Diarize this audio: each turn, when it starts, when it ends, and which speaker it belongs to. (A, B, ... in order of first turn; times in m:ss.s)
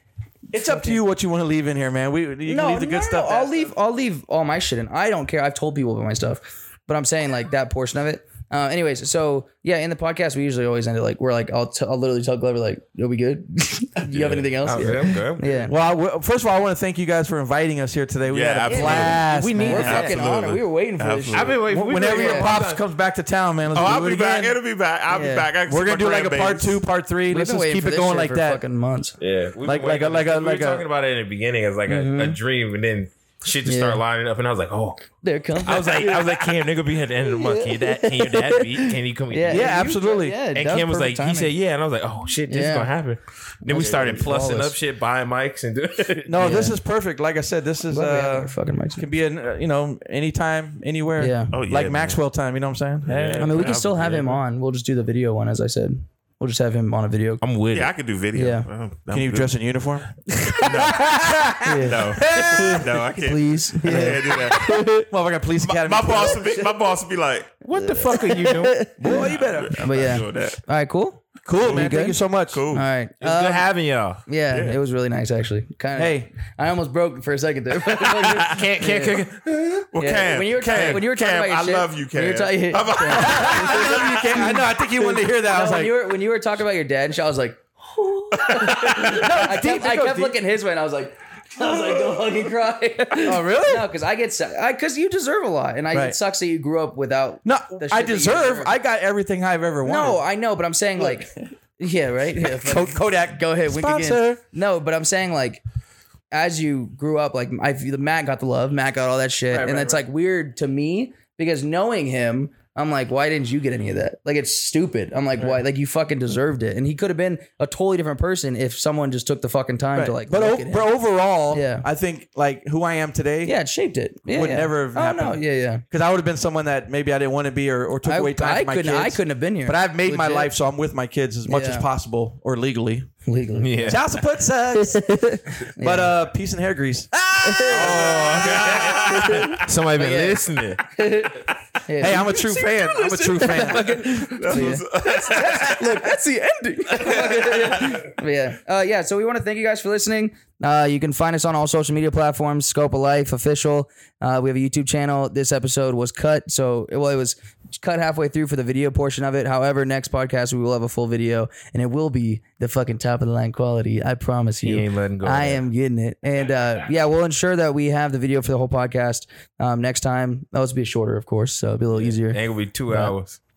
0:00.5-0:01.0 A
0:00.5-0:03.7 B
0:02.5-0:15.7 A
0:14.2-0:14.4 C
0:14.6-0:15.4 D
0:15.6-0:20.1 B
0:18.3-0:19.2 C
0:18.7-0:22.5 A
0:19.6-0:20.1 D
0:19.7-0:21.6 C
0:21.3-0:22.8 D
0:21.7-0:24.6 B
0:23.7-0:26.8 C
0:25.1-0:25.5 A
0:25.7-0:28.6 B
0:27.3-0:29.2 A
0:29.2-0:35.0 D
0:29.6-0:30.9 B
0:31.9-0:32.4 A
0:33.7-0:34.0 A
0:35.2-0:36.6 A
0:35.6-0:39.8 D
0:37.3-0:41.5 A
0:39.5-0:40.4 B
0:40.5-0:46.6 D
0:42.5-0:42.9 A
0:43.7-0:44.8 A
0:46.3-0:53.5 B
0:46.4-0:46.8 A
0:47.9-0:49.1 A
0:51.2-0:51.5 A
0:51.5-0:52.2 C
0:53.1-0:54.4 D
0:53.4-0:57.4 A
0:53.4-0:54.2 C
0:57.4-0:57.9 D
0:57.7-0:59.5 C
0:58.4-0:58.7 A
0:59.1-1:00.2 B
1:00.3-1:00.7 A
1:00.6-1:04.7 C
1:00.9-1:02.9 B
1:01.6-1:05.1 A
1:03.9-1:06.4 B
1:05.6-1:07.6 C
1:07.6-1:09.4 D
1:07.7-1:12.2 A
1:09.0-1:09.9 B
1:09.1-1:10.6 C
1:11.4-1:12.6 B
1:12.5-1:12.9 C
1:12.7-1:13.7 A
1:13.2-1:14.2 D
1:14.2-1:19.3 A
1:14.5-1:14.8 C
1:16.0-1:16.3 B
1:18.3-1:19.9 D
1:19.9-1:24.5 C
1:20.0-1:38.7 A
1:20.7-1:21.0 D
1:23.1-1:25.9 B
1:28.3-1:29.4 C
1:29.0-1:30.4 B
1:33.2-1:33.9 B
1:37.4-1:40.2 B
1:39.8-1:45.6 A
1:42.4-1:44.4 B
1:46.3-2:00.9 A
1:49.5-1:50.0 B
2:00.0-2:03.5 B
2:01.5-2:01.9 A
2:03.4-2:05.8 A
2:04.3-2:13.1 B
2:08.0-2:10.5 A
2:11.5-2:11.9 A
2:13.3-2:14.0 A
2:13.6-2:14.0 D
2:13.8-2:15.1 B
2:14.8-2:16.2 A
2:15.8-2:18.9 B
2:17.4-2:18.1 A
2:17.7-2:20.8 D
2:18.0-2:19.6 C
2:18.8-2:52.4 A
2:22.0-2:24.7 B
2:24.0-2:26.0 C
2:27.5-2:28.0 C
2:44.6-2:45.6 D
2:51.9-2:53.4 D
2:52.9-2:53.2 A